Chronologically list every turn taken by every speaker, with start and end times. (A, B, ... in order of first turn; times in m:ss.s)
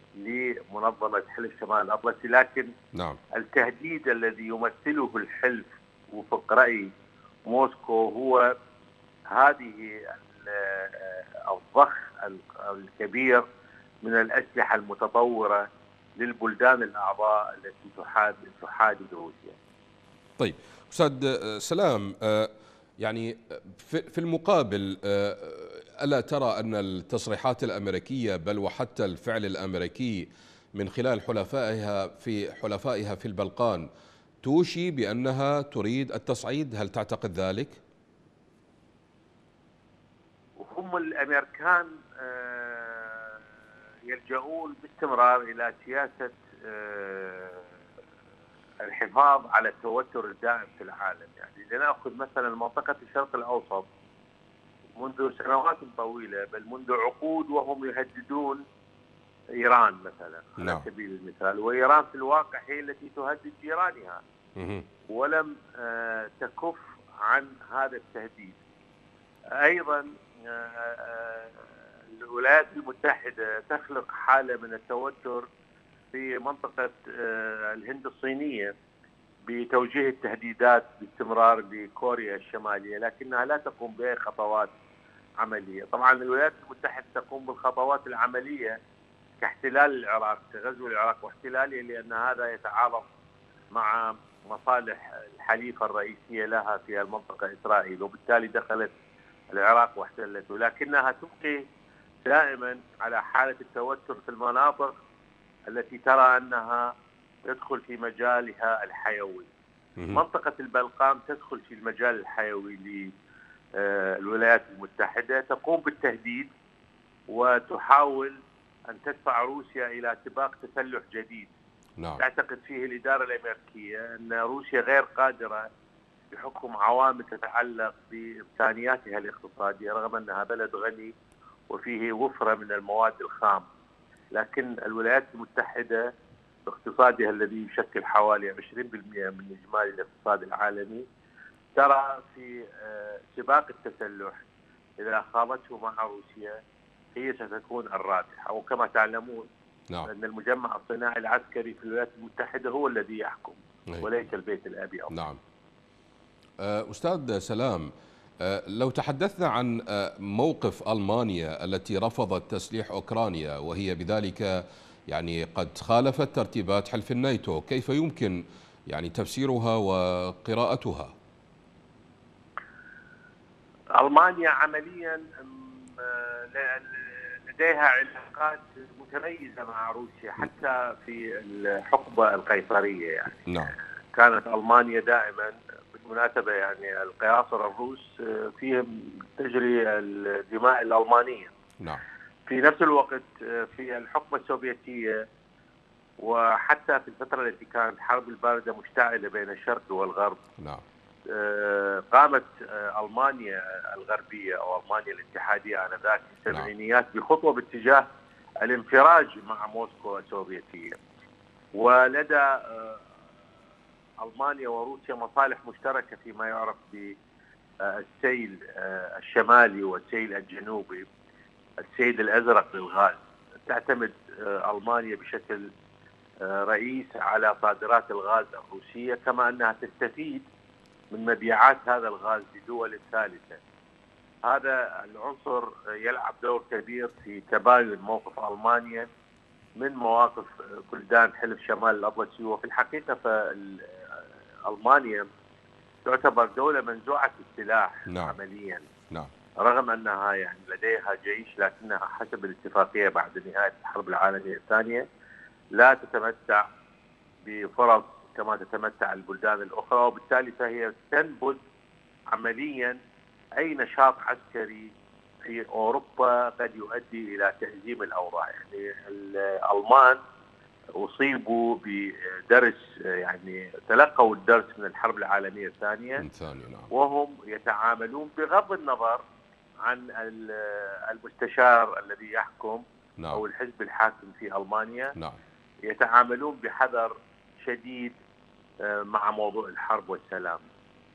0:00.2-0:02.7 A
0:03.3-0:06.9 A
0:07.5-0:08.5 A
0:09.3-0:13.4 A
0:14.0-0:15.7 A
0:16.2-0:19.6 A
0:20.4-0:33.9 B
0:34.4-0:37.8 B
0:40.6-0:43.4 A
0:44.1-0:47.8 A
0:48.8-0:53.9 A
0:55.0-0:58.6 A
0:59.6-1:04.2 A
1:00.6-1:00.8 B
1:04.6-1:04.8 B
1:05.1-1:08.6 A
1:09.6-1:15.5 A
1:16.1-1:18.7 A
1:19.4-1:24.7 A
1:25.4-1:28.8 A
1:29.4-1:33.0 A
1:33.7-1:38.9 A
1:39.5-1:41.6 A
1:42.2-1:44.9 A
1:45.7-1:46.9 A
1:47.4-1:49.5 A
1:50.1-1:53.1 A
1:53.8-1:56.5 A
1:57.3-2:01.5 A
2:02.2-2:05.7 A
2:06.3-2:11.1 A
2:11.7-2:13.7 A
2:14.3-2:16.1 A
2:16.7-2:21.0 A
2:21.8-2:24.4 A
2:25.0-2:26.6 A
2:27.1-2:29.5 A
2:30.1-2:35.1 A
2:35.1-2:35.4 B
2:36.6-2:37.9 B
2:38.4-2:51.1 B
2:54.0-3:03.4 A
3:03.5-3:03.8 B
3:04.1-3:11.5 A
3:12.5-3:15.2 A
3:16.2-3:20.4 A
3:21.3-3:28.1 A
3:28.6-3:31.0 A
3:31.8-3:33.0 A
3:34.2-3:37.2 A
3:37.8-3:41.1 A
3:41.8-3:45.7 A
3:46.4-3:50.5 A
3:51.1-3:53.6 A
3:54.4-3:59.1 A
3:59.8-4:05.3 A
4:06.0-4:08.9 A
4:08.1-4:08.4 B
4:09.6-4:15.1 A
4:15.8-4:16.7 A
4:17.4-4:21.6 A
4:22.3-4:23.0 A
4:23.6-4:24.9 A
4:25.4-4:30.2 A
4:31.0-4:36.2 A
4:36.2-4:36.9 B
4:36.9-4:39.2 A
4:39.8-4:45.1 A
4:45.9-4:48.2 A
4:48.8-4:50.6 A